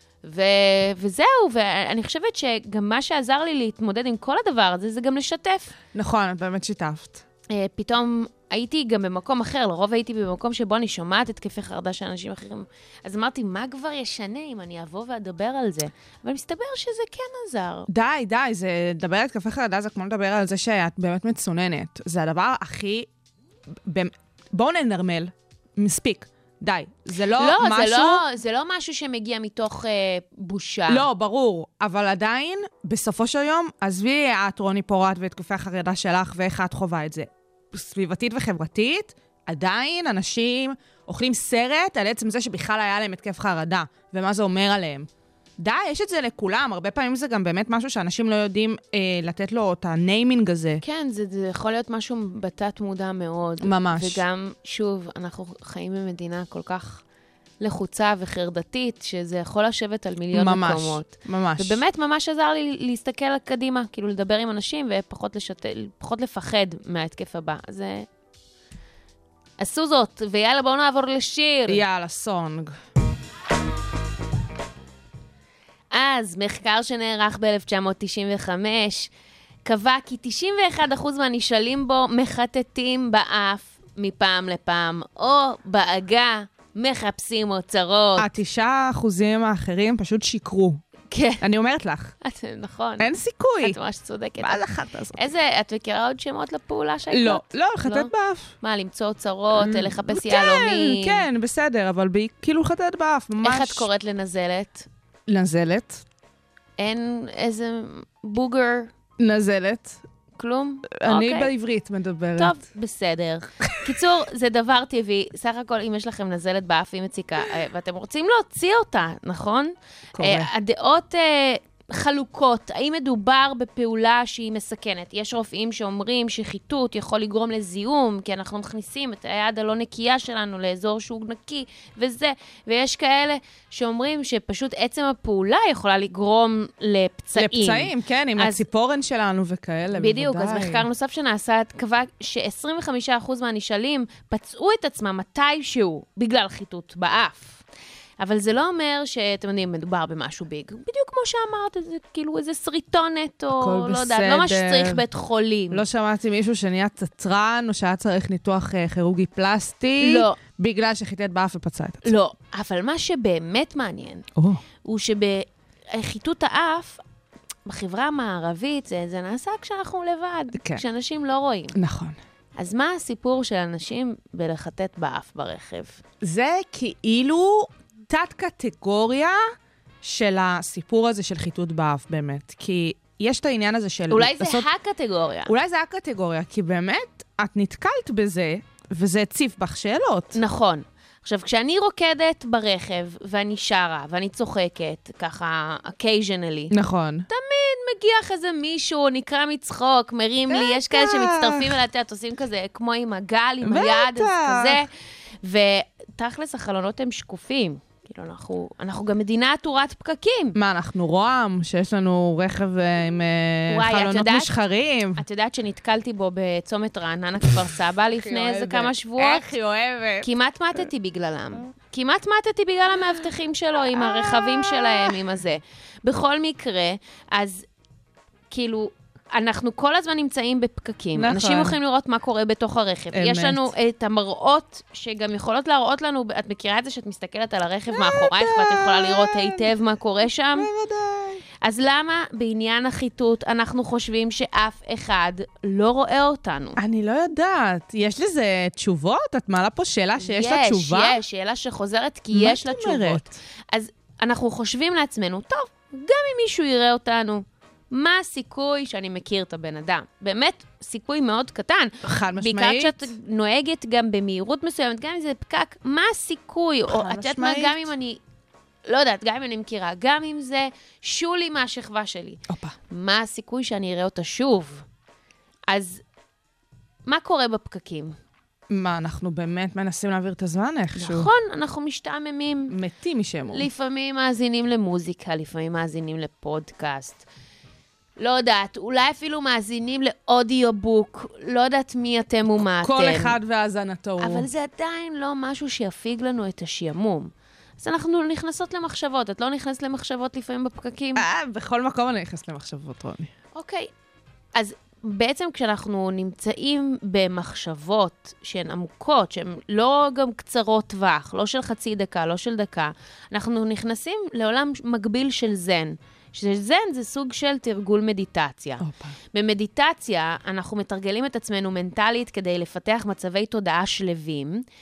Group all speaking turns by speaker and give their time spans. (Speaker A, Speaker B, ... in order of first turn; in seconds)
Speaker A: 0.2-5.7, 7.5-17.9, 27.4-31.1, 50.8-57.0, 57.6-68.1, 69.6-71.8, 75.9-79.1, 79.7-88.3, 91.1-91.4, 92.2-94.6, 95.2-101.2, 103.4-104.9, 106.8-108.9, 110.4-111.5, 112.4-138.6, 139.9-147.6, 148.2-155.8, 160.0-160.4, 162.0-164.3, 164.8-167.0, 167.7-171.8, 172.6-176.0, 184.1-185.5, 190.3-196.7, 197.3-204.9, 205.4-210.6, 213.7-214.5, 215.2-219.5, 220.2-227.7, 228.5-240.7, 241.6-246.8, 250.2-268.2, 268.9-274.9, 275.7-276.0, 277.1-278.2, 281.0-282.8, 283.5-287.3, 288.2-293.4, 294.2-301.2, 303.6-303.9, 304.6-324.6
Speaker B: 5.9-7.2, 17.9-23.1, 23.9-28.2, 30.9-50.8, 53.6-54.2, 60.3-61.8, 71.7-72.8, 88.2-90.8, 91.4-92.1, 93.0-93.8, 94.4-95.3, 97.1-98.5, 99.5-103.9, 105.3-106.0, 109.2-110.0, 110.9-112.5, 120.1-120.5, 137.3-140.9, 153.5-155.0, 155.7-162.1, 164.4-164.6, 170.5-170.8, 171.7-172.2, 176.2-179.4, 180.0-184.7, 185.5-190.4, 196.7-197.3, 200.5-201.8, 203.6-204.8, 210.6-215.2, 218.1-220.3, 223.9-225.2, 231.2-231.8, 233.1-233.7, 237.9-239.7, 240.6-241.4, 246.8-251.2, 252.3-253.4, 262.0-263.1, 266.9-267.9, 272.5-272.8, 278.7-281.3, 282.7-283.7, 292.8-294.5, 301.1-303.3, 318.8-319.2